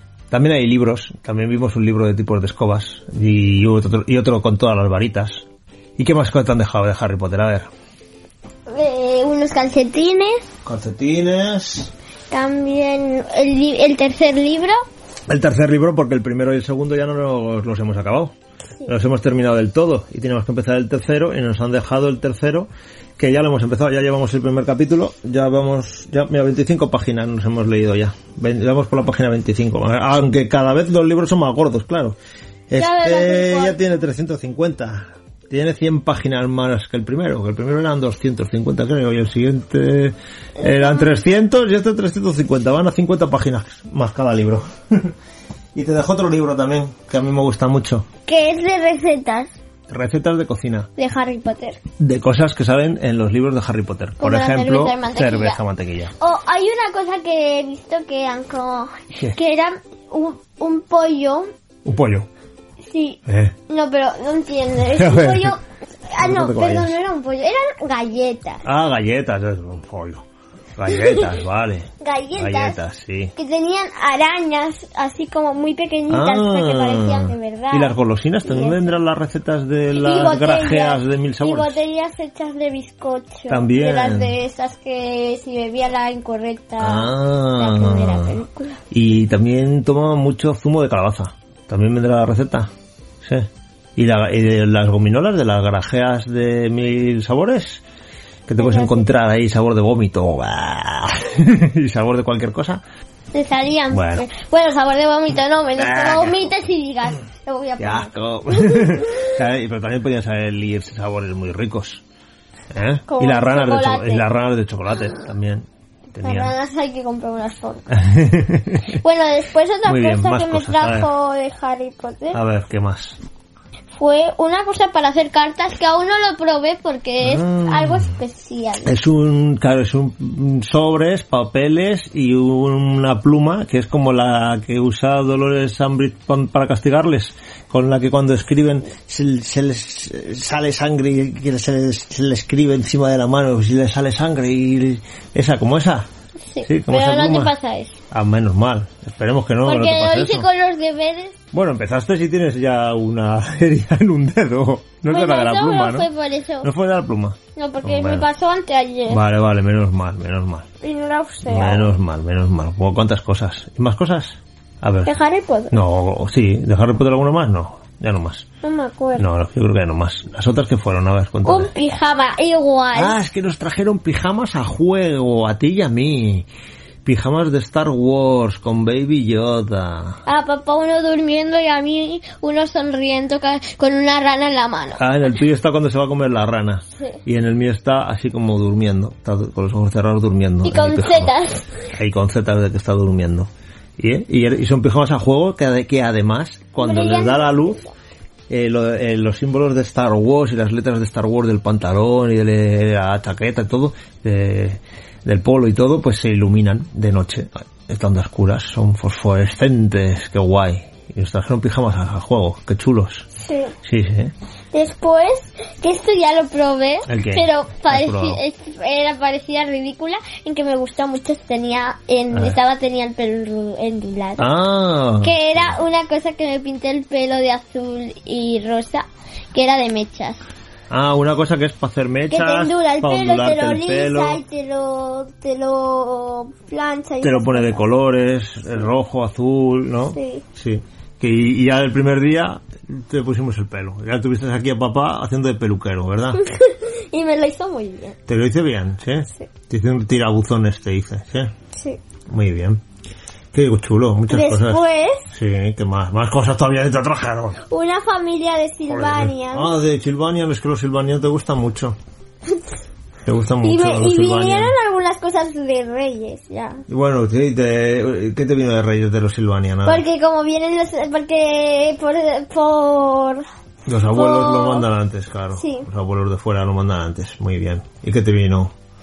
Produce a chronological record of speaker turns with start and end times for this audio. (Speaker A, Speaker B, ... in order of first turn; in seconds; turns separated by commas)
Speaker A: 0.3-5.4, Speaker A: 6.0-7.7, Speaker B: 8.7-10.4, Speaker A: 10.6-11.9, Speaker B: 12.3-14.8, Speaker A: 15.3-18.3, Speaker A: 18.8-32.1, Speaker A: 32.7-45.1, Speaker B: 32.7-33.9, Speaker A: 45.7-48.0, Speaker B: 48.2-49.5, Speaker A: 49.9-50.9, Speaker B: 51.0-51.8, Speaker A: 52.0-56.1, Speaker B: 54.2-55.6, Speaker B: 56.2-61.5, Speaker A: 61.8-62.3, Speaker B: 62.9-68.6, Speaker A: 63.2-63.5, Speaker A: 64.9-65.5, Speaker A: 66.2-67.0, Speaker A: 68.6-70.2, Speaker A: 70.8-73.3, Speaker B: 72.0-72.8, Speaker B: 73.3-77.9, Speaker A: 76.1-81.8, Speaker B: 78.4-78.9, Speaker B: 79.9-88.8, Speaker A: 83.5-84.4, Speaker A: 86.8-88.4, Speaker A: 88.9-92.7, Speaker A: 93.2-97.8, Speaker A: 98.5-102.8, Speaker B: 98.6-99.0, Speaker B: 103.3-109.3, Speaker A: 103.9-104.2, Speaker A: 105.8-106.4, Speaker A: 107.8-112.0, Speaker A: 112.7-116.5, Speaker B: 113.1-114.2, Speaker B: 116.2-117.9, Speaker A: 117.9-119.0, Speaker B: 118.9-122.4, Speaker A: 119.8-121.1, Speaker A: 122.3-123.2, Speaker B: 123.9-128.9, Speaker A: 127.2-128.1, Speaker A: 128.8-146.1, Speaker B: 146.5-148.0, Speaker A: 146.6-147.5, Speaker A: 148.1-150.5, Speaker B: 149.6-151.4, Speaker A: 151.5-156.1, Speaker B: 155.1-156.7, Speaker A: 156.6-158.3, Speaker B: 157.5-159.2, Speaker A: 159.1-160.7, Speaker B: 160.8-161.9, Speaker A: 161.4-165.1, Speaker B: 165.0-165.7, Speaker A: 165.7-168.4, Speaker B: 168.6-169.2, Speaker A: 169.2-171.7, Speaker B: 171.4-173.2, Speaker A: 172.9-176.5, Speaker A: 177.0-180.2, Speaker B: 180.2-185.0, Speaker A: 185.0-191.3, Speaker B: 190.6-191.7, Speaker A: 191.9-197.8, Speaker B: 196.8-197.9, Speaker A: 198.5-213.3, Speaker B: 213.4-213.7, Speaker A: 213.8-214.3, Speaker B: 214.7-224.5, Speaker A: 217.1-218.4, Speaker A: 224.4-225.8, Speaker B: 225.2-230.4, Speaker A: 230.9-234.4, Speaker B: 232.3-237.8, Speaker A: 237.2-246.4, Speaker B: 240.1-240.4, Speaker B: 246.3-248.2, Speaker A: 248.3-251.5, Speaker B: 251.7-252.0, Speaker A: 252.3-252.8, Speaker A: 253.5-257.6, Speaker B: 254.3-255.3, Speaker B: 257.7-259.7, Speaker A: 258.9-262.0, Speaker A: 263.2-264.7, Speaker B: 263.6-266.8, Speaker A: 266.9-270.0, Speaker B: 269.8-273.4, Speaker A: 273.9-278.7, Speaker B: 274.1-274.9, Speaker B: 275.5-275.9